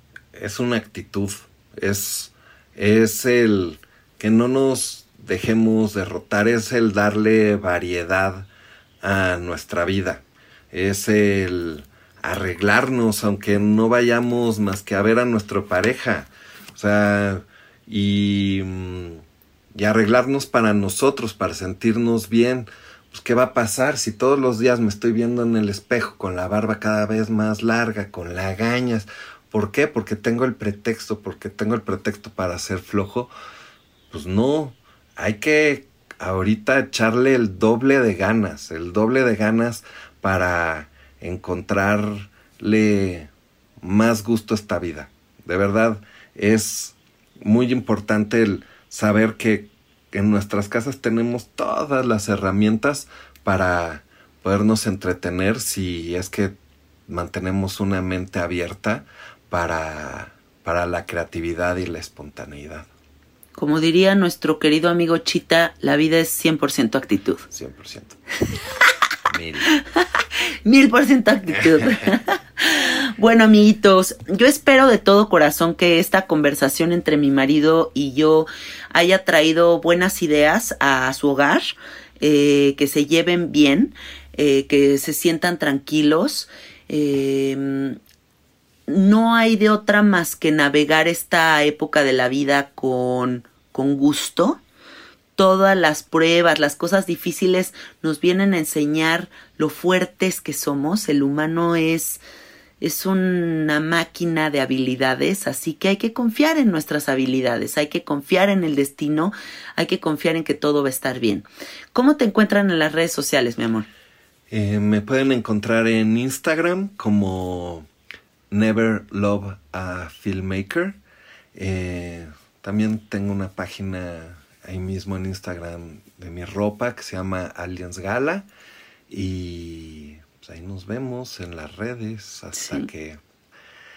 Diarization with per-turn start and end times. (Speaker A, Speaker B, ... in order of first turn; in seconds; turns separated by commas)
Speaker A: 0.3-8.5, Speaker A: 9.0-33.3, Speaker A: 34.1-56.5, Speaker A: 57.1-62.9, Speaker B: 63.5-67.4, Speaker A: 67.5-68.2, Speaker A: 69.3-69.7, Speaker B: 69.7-88.0, Speaker B: 88.9-94.6, Speaker B: 95.3-102.2, Speaker B: 102.8-113.9, Speaker A: 114.5-117.9, Speaker A: 118.5-121.0, Speaker A: 121.5-128.5, Speaker A: 129.1-133.2, Speaker B: 132.6-132.9